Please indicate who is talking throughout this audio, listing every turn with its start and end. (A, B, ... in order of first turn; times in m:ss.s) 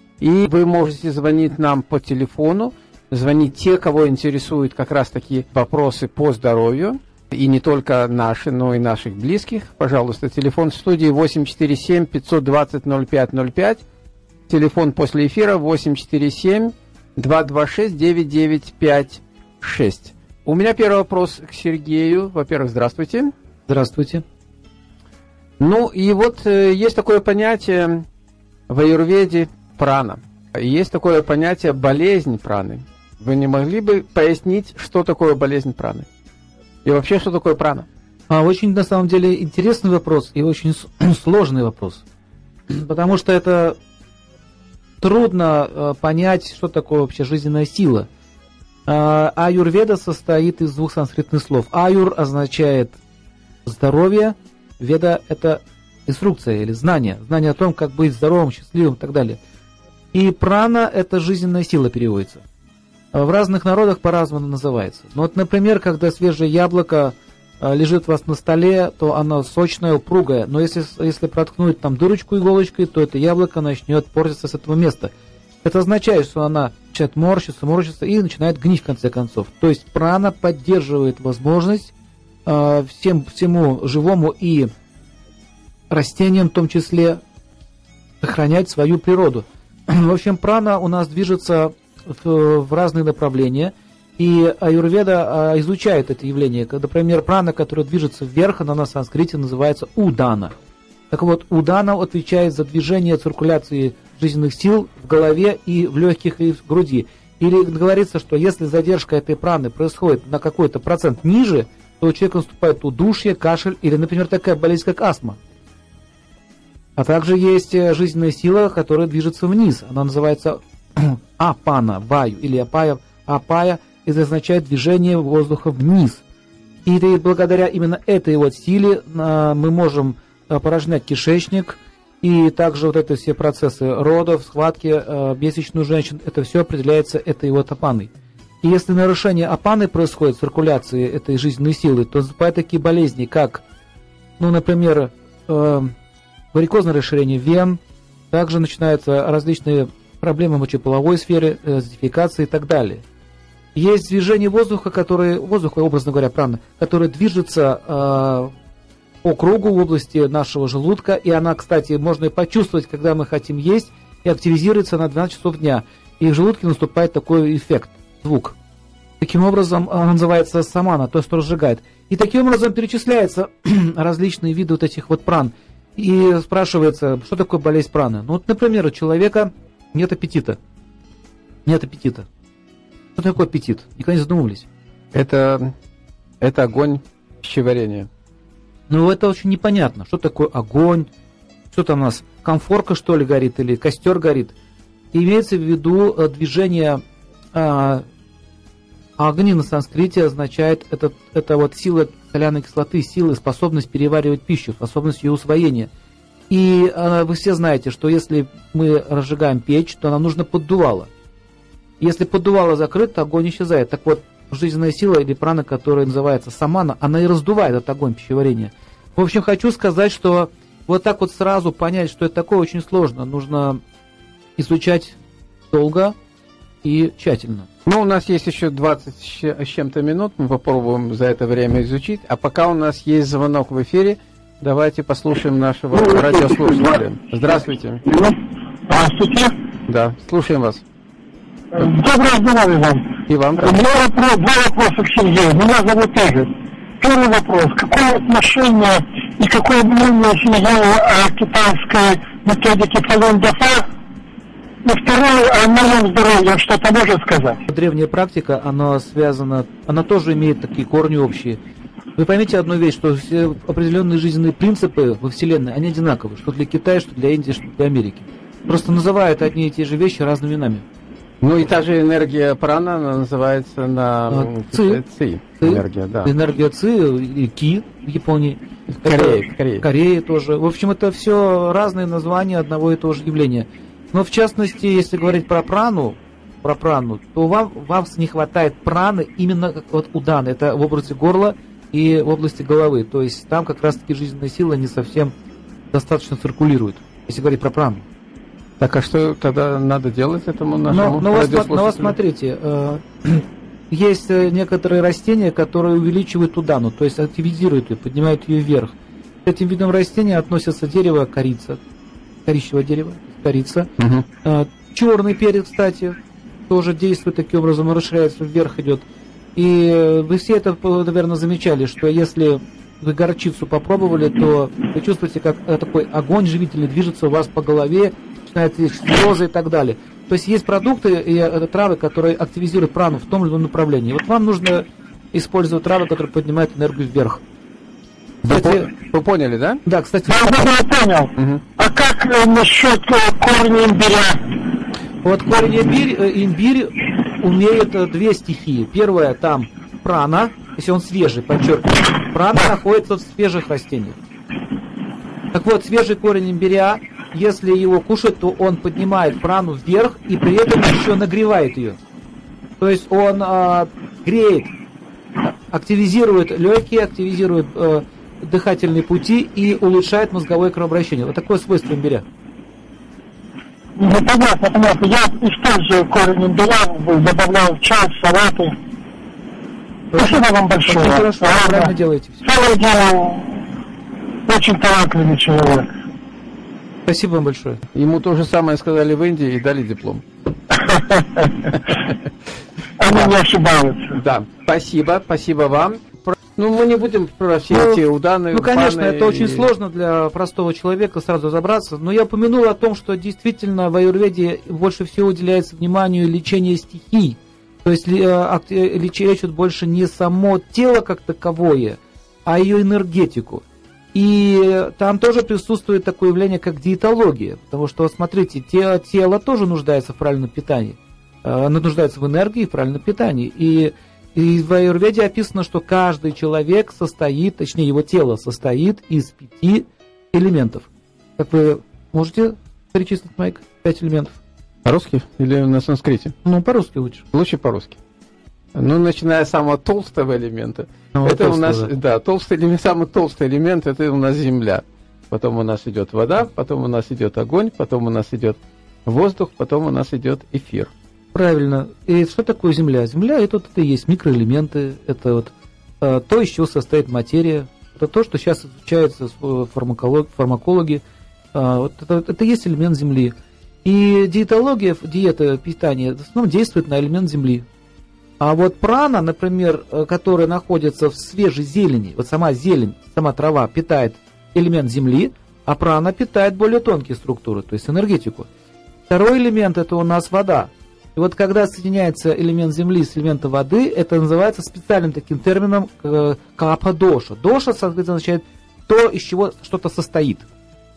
0:00.2-0:13.8 A
0:14.5-0:23.3 A
0:23.7-0:24.2 B
0:25.6-0:28.0 A
0:28.7-0:36.1 A
0:36.8-0:37.9 A
0:38.3-0:42.0 B
0:42.7-0:43.8 B
0:45.0-0:48.1 B
0:48.9-0:53.0 B
0:53.6-0:59.4 B
1:00.1-1:02.4 B
1:03.1-1:15.1 B
1:15.6-1:21.9 B
1:22.4-1:24.7 B
1:25.9-1:27.2 B
1:28.2-1:40.5 B
1:41.1-1:55.4 B
1:57.0-2:06.2 B
2:06.8-2:18.1 B
2:18.6-2:23.6 B
2:24.4-2:25.9 B
2:26.5-2:27.8 B
2:28.3-2:33.0 B
2:33.7-2:38.5 B
2:39.2-2:48.6 B
2:49.2-3:00.6 B
3:01.6-3:02.3 B
3:03.2-3:04.7 B
3:05.1-3:05.7 A
3:06.4-3:08.1 A
3:08.9-3:11.1 B
3:11.7-3:14.5 B
3:15.1-3:17.0 B
3:17.5-3:18.0 B
3:19.2-3:25.9 B
3:26.5-3:31.1 B
3:32.0-3:43.8 B
3:44.6-3:45.2 B
3:45.7-3:46.2 B
3:46.8-3:47.7 B
3:47.8-3:58.0 A
3:56.0-3:57.0 C
3:58.0-3:58.4 C
3:58.9-3:59.5 C
3:59.9-4:00.8 A
4:01.7-4:13.8 C
4:03.3-4:03.8 A
4:14.8-4:17.6 C
4:17.7-4:21.6 B
4:22.2-4:30.8 B
4:31.4-4:36.3 A
4:34.3-4:35.0 B
4:35.6-4:55.3 B
4:38.9-4:39.8 A
4:55.9-4:58.0 B
4:58.8-5:02.2 A
5:00.9-5:11.8 B
5:12.4-5:13.9 B
5:14.0-5:14.2 A
5:14.4-5:16.2 B
5:16.7-5:37.4 B
5:38.4-5:39.8 A
5:38.5-5:38.9 B
5:39.8-5:40.7 B
5:40.3-5:44.4 C
5:41.4-5:41.6 A
5:45.2-5:54.2 B
5:55.5-6:02.0 B
6:02.8-6:04.7 B
6:05.4-6:12.2 B
6:14.0-6:18.7 C
6:20.1-6:22.4 B
6:20.2-6:21.9 C
6:22.4-6:23.6 C
6:24.4-6:25.9 C
6:27.0-6:27.8 B
6:27.9-6:30.2 A
6:30.8-6:31.7 C
6:33.0-6:34.2 C
6:34.1-6:39.7 A
6:37.7-6:38.0 B
6:38.5-7:14.4 B
7:14.8-7:16.4 A
7:16.4-7:17.2 B
7:17.3-7:18.0 A
7:18.7-7:30.9 A
7:21.1-7:21.9 B
7:31.3-7:41.0 B
7:41.5-7:47.6 B
7:48.4-7:58.5 B
7:59.1-8:10.5 B